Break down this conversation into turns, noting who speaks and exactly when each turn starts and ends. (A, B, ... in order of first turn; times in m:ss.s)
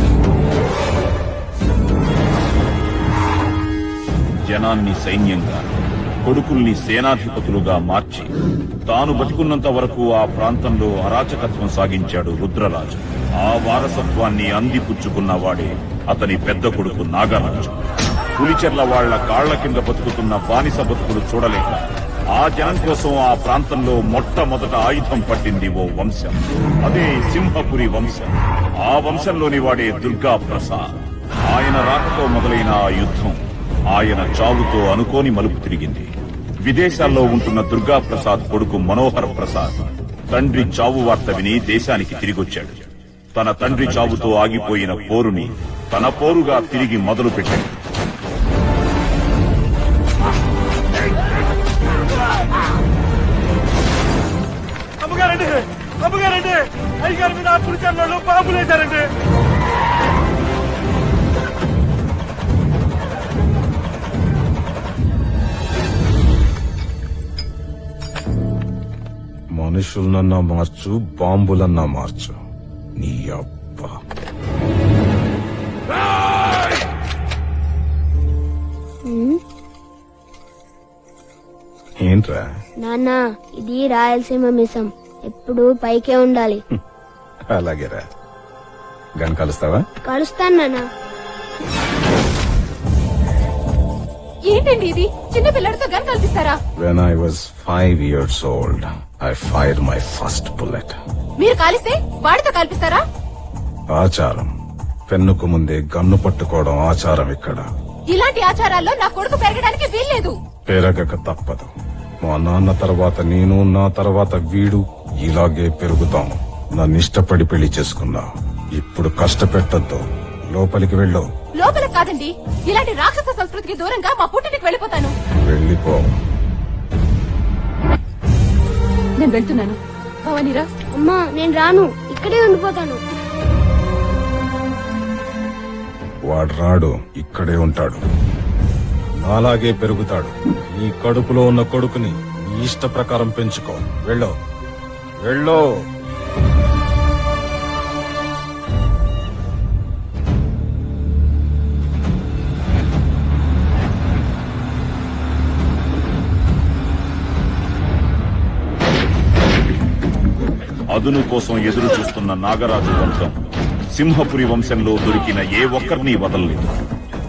0:04.5-0:05.6 A
0:06.2-0:08.3 A
0:08.9-0:17.8 A
0:18.4-0:21.8 A
0:22.3-0:28.3 A
0:28.8-0:30.8 A
0:31.4-0:33.4 A
0:33.9-0:36.1 A
0:36.6-0:39.8 A
0:40.3-0:42.8 A
0:43.3-0:47.7 A
0:55.0-0:56.6 B
0:57.1-0:59.0 B
1:09.6-1:12.3 C
1:13.0-1:13.9 C
1:19.1-1:19.4 D
1:22.0-1:22.5 C
1:22.8-1:26.6 D
1:27.5-1:28.0 C
1:29.2-1:29.8 C
1:30.0-1:30.8 D
1:34.5-1:36.6 E
1:36.8-1:41.0 C
1:41.4-1:43.0 E
1:44.0-1:44.5 C
1:45.1-1:47.6 C
1:48.1-1:50.3 E
1:50.7-1:51.7 C
1:52.2-1:58.3 C
1:58.8-2:00.0 C
2:00.5-2:01.2 C
2:01.6-2:05.1 E
2:05.5-2:06.1 C
2:09.2-2:10.7 E
2:11.0-2:13.0 D
2:16.3-2:18.0 C
2:19.2-2:24.3 C
2:25.2-2:25.7 C
2:40.9-2:43.4 A
2:43.9-2:46.7 A